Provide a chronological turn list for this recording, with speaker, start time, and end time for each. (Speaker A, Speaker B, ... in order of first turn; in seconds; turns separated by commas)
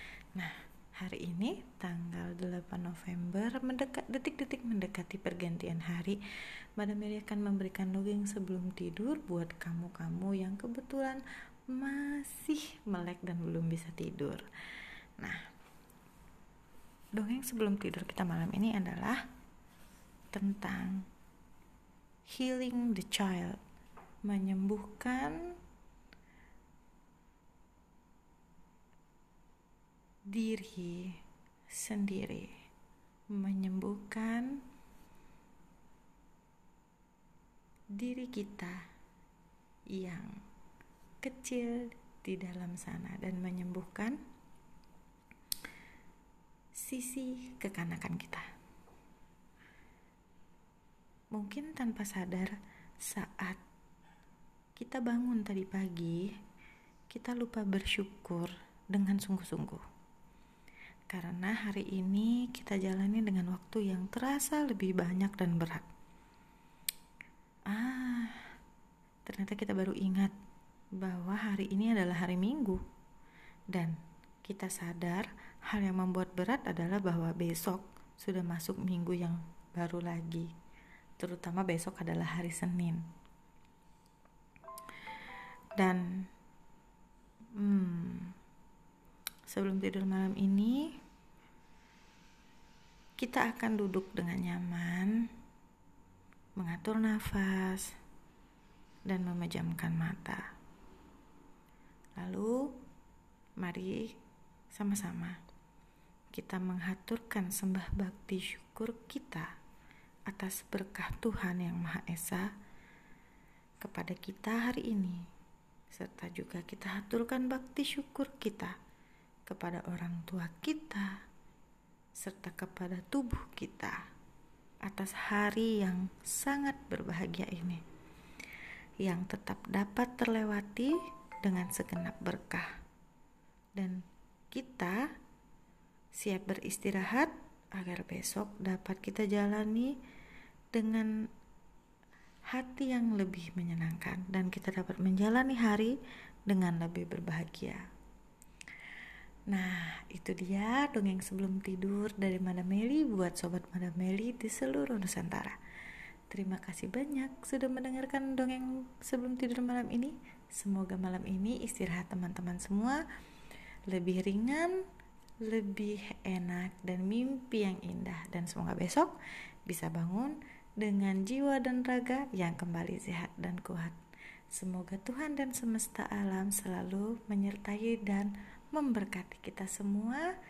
Speaker A: 0.3-6.2, Speaker A: 6.8-14.4, Speaker A: 15.2-15.5, Speaker A: 17.2-19.2, Speaker A: 20.3-21.1, Speaker A: 22.3-23.6, Speaker A: 24.2-25.4, Speaker A: 30.3-31.2, Speaker A: 31.7-32.5, Speaker A: 33.3-34.6, Speaker A: 38.0-38.8, Speaker A: 39.9-40.4, Speaker A: 41.2-44.2, Speaker A: 46.8-48.5, Speaker A: 51.3-53.6, Speaker A: 54.8-56.3, Speaker A: 57.1-59.8, Speaker A: 61.1-65.9, Speaker A: 67.7-68.5, Speaker A: 69.3-70.3, Speaker A: 71.0-72.8, Speaker A: 73.7-80.5, Speaker A: 81.2-83.0, Speaker A: 85.8-86.3, Speaker A: 87.5-88.3, Speaker A: 89.5-90.9, Speaker A: 93.2-95.2, Speaker A: 96.6-97.9, Speaker A: 99.1-100.5, Speaker A: 102.2-102.8, Speaker A: 103.6-104.2, Speaker A: 104.7-105.4, Speaker A: 106.3-109.5, Speaker A: 110.3-112.5, Speaker A: 113.8-115.2, Speaker A: 115.9-118.8, Speaker A: 119.5-121.1, Speaker A: 122.2-124.0, Speaker A: 124.8-127.8, Speaker A: 129.0-132.8, Speaker A: 134.5-135.0, Speaker A: 136.2-140.0, Speaker A: 140.7-141.1, Speaker A: 142.5-146.0, Speaker A: 146.5-147.9, Speaker A: 149.5-155.6, Speaker A: 156.3-163.0, Speaker A: 163.9-164.8, Speaker A: 165.4-169.1, Speaker A: 169.7-174.0, Speaker A: 174.5-180.3